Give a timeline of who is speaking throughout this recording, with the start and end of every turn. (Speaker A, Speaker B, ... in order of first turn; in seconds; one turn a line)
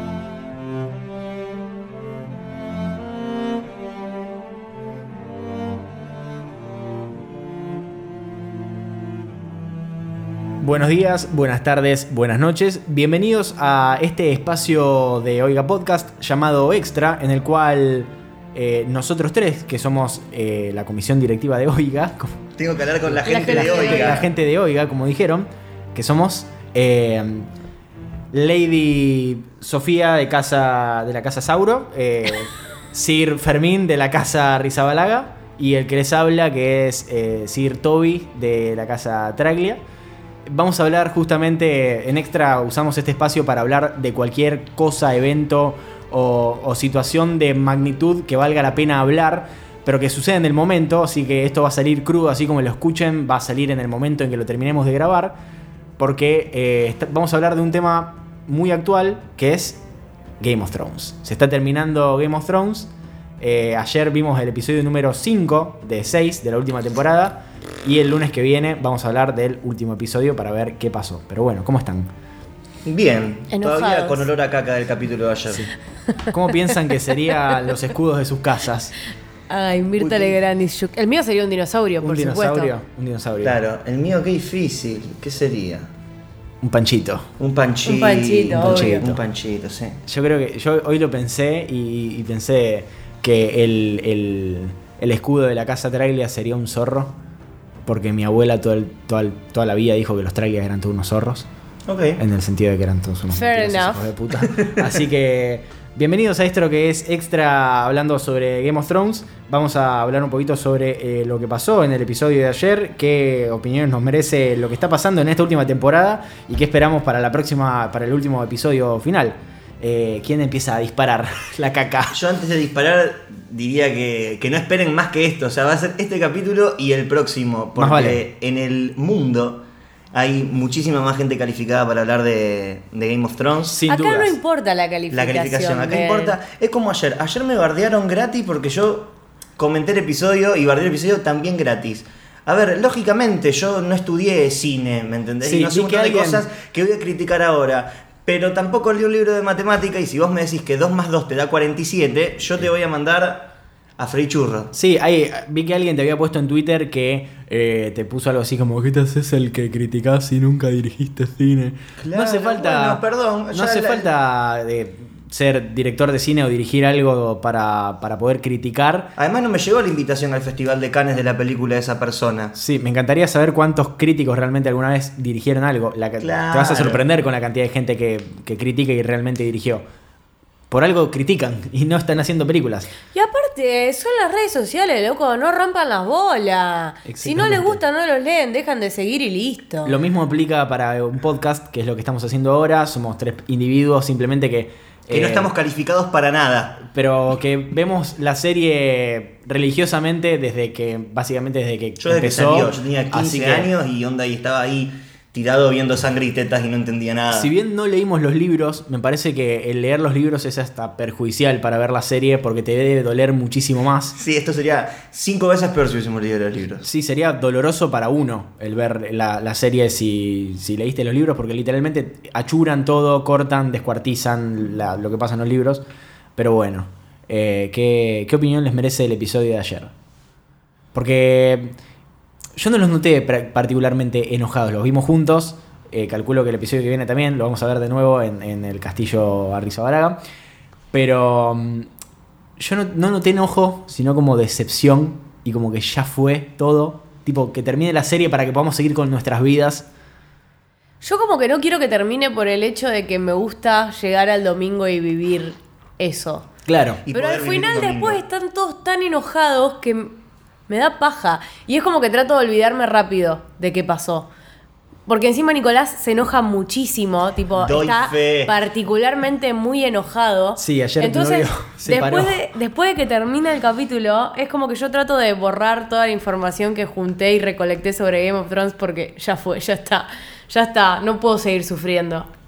Speaker A: 10.6-22.4
Speaker B: 22.6-24.3
Speaker A: 23.1-27.5
Speaker C: 23.2-24.2
Speaker A: 28.3-39.8
Speaker A: 40.5-55.4
Speaker A: 56.0-59.8
Speaker A: 60.4-72.1
Speaker B: 72.8-75.7
Speaker C: 73.5-74.3
Speaker A: 76.3-78.9
Speaker C: 79.5-82.7
Speaker B: 80.0-80.4
Speaker A: 82.0-83.6
Speaker B: 83.4-85.9
Speaker A: 86.6-87.3
Speaker B: 87.4-90.0
Speaker C: 87.8-89.1
Speaker A: 88.5-89.2
Speaker A: 90.1-97.1
Speaker A: 97.9-101.5
Speaker B: 101.9-102.2
Speaker A: 102.2-122.2
Speaker C: 103.3-104.0
Speaker B: 104.5-104.8
Speaker B: 122.1-129.6
Speaker A: 127.8-128.2
Speaker B: 130.1-133.8
Speaker A: 133.7-134.4
Speaker C: 133.9-136.4
Speaker B: 135.1-154.7
Speaker A: 145.4-146.4
Speaker A: 154.7-169.1
Speaker B: 162.0-164.1
Speaker B: 169.2-172.6
Speaker A: 172.6-179.8
Speaker B: 176.2-177.0
Speaker A: 180.7-182.9
Speaker C: 183.1-190.0
Speaker A: 187.1-187.8
Speaker A: 189.8-195.5
Speaker B: 195.1-196.9
Speaker A: 196.9-203.7
Speaker B: 202.0-207.5
Speaker A: 207.3-214.2
Speaker B: 214.2-216.8
Speaker A: 216.8-225.8
Speaker A: 226.4-229.9
Speaker A: 230.9-231.8
Speaker A: 232.6-240.2
Speaker A: 240.9-241.9
Speaker A: 242.6-249.9
Speaker C: 251.0-256.5
Speaker A: 256.7-257.0
Speaker B: 257.1-258.2
Speaker C: 257.1-260.1
Speaker C: 260.7-264.3
Speaker C: 265.1-282.3
Speaker B: 267.6-268.5
Speaker A: 270.6-272.4